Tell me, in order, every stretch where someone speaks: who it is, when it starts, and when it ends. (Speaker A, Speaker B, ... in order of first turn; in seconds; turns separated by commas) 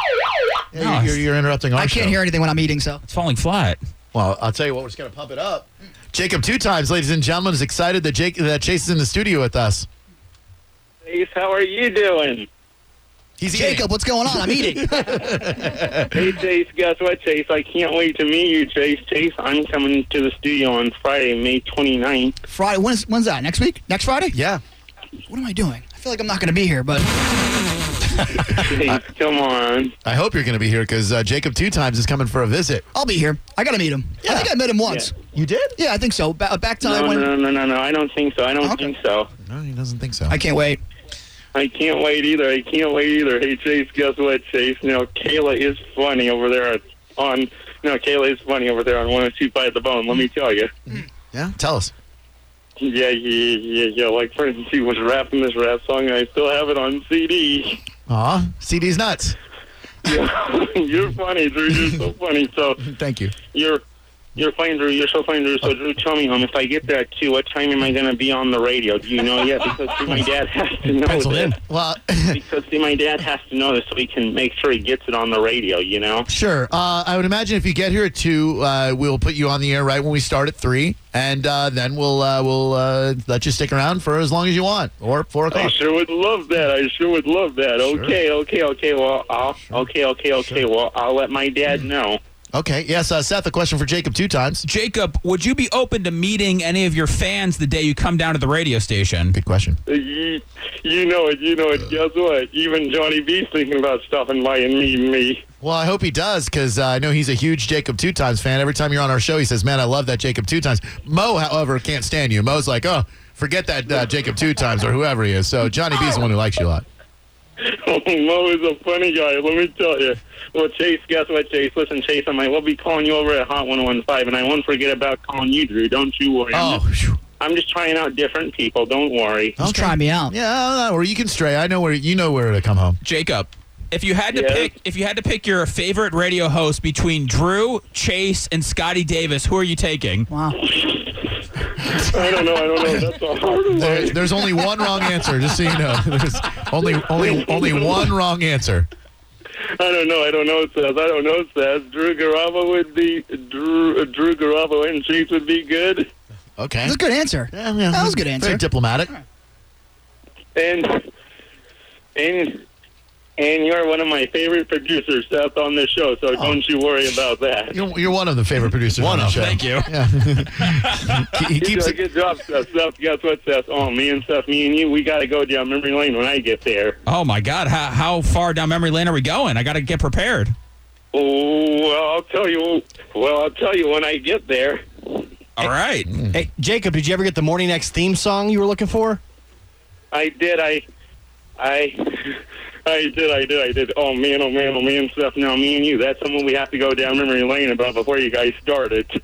Speaker A: 0.7-2.2, Speaker B: 0.8-1.2, Speaker C: 1.8-3.0, Speaker B: 3.1-3.8, Speaker A: 4.1-9.9, Speaker D: 11.1-12.5, Speaker A: 13.4-16.1, Speaker C: 13.5-15.4, Speaker D: 16.0-22.4, Speaker C: 22.5-24.4, Speaker A: 24.3-24.6, Speaker C: 25.3-27.3, Speaker D: 28.6-29.9, Speaker A: 30.1-32.9, Speaker C: 32.9-35.1, Speaker A: 34.2-34.5, Speaker A: 35.3-35.8, Speaker C: 35.8-37.3, Speaker D: 36.8-39.3, Speaker C: 38.6-38.9, Speaker A: 39.4-40.4, Speaker C: 40.3-40.8, Speaker D: 41.5-50.7, Speaker A: 50.9-51.9, Speaker D: 52.8-57.8, Speaker A: 58.1-59.4, Speaker D: 60.0-63.8, Speaker A: 62.8-63.4, Speaker D: 64.4-71.6, Speaker E: 71.0-71.6, Speaker A: 71.5-72.4, Speaker D: 72.3-76.3, Speaker A: 76.3-85.8, Speaker D: 85.5-92.2, Speaker A: 87.8-88.2, Speaker A: 92.5-94.7, Speaker B: 94.6-99.4, Speaker A: 99.3-99.8, Speaker D: 99.9-105.4, Speaker A: 105.6-116.8, Speaker D: 117.6-126.8, Speaker A: 126.5-127.2, Speaker D: 127.4-129.6, Speaker C: 129.6-130.3, Speaker A: 129.6-133.0, Speaker B: 133.0-140.3, Speaker D: 134.3-134.7, Speaker C: 140.3-140.6, Speaker D: 140.6-145.1, Speaker A: 143.7-148.9, Speaker D: 146.8-148.2, Speaker D: 149.8-156.1, Speaker A: 156.6-157.0, Speaker C: 156.8-158.7, Speaker A: 157.5-159.1, Speaker D: 160.6-161.1, Speaker D: 162.2-162.7, Speaker D: 163.4-167.8, Speaker A: 166.3-166.6, Speaker A: 167.7-172.0, Speaker E: 169.0-169.6, Speaker B: 169.2-171.3, Speaker D: 171.6-177.0, Speaker B: 177.1-180.6, Speaker D: 181.1-185.3, Speaker B: 185.6-186.2, Speaker A: 186.1-186.4, Speaker E: 186.3-189.2, Speaker D: 190.1-190.8, Speaker D: 191.6-199.1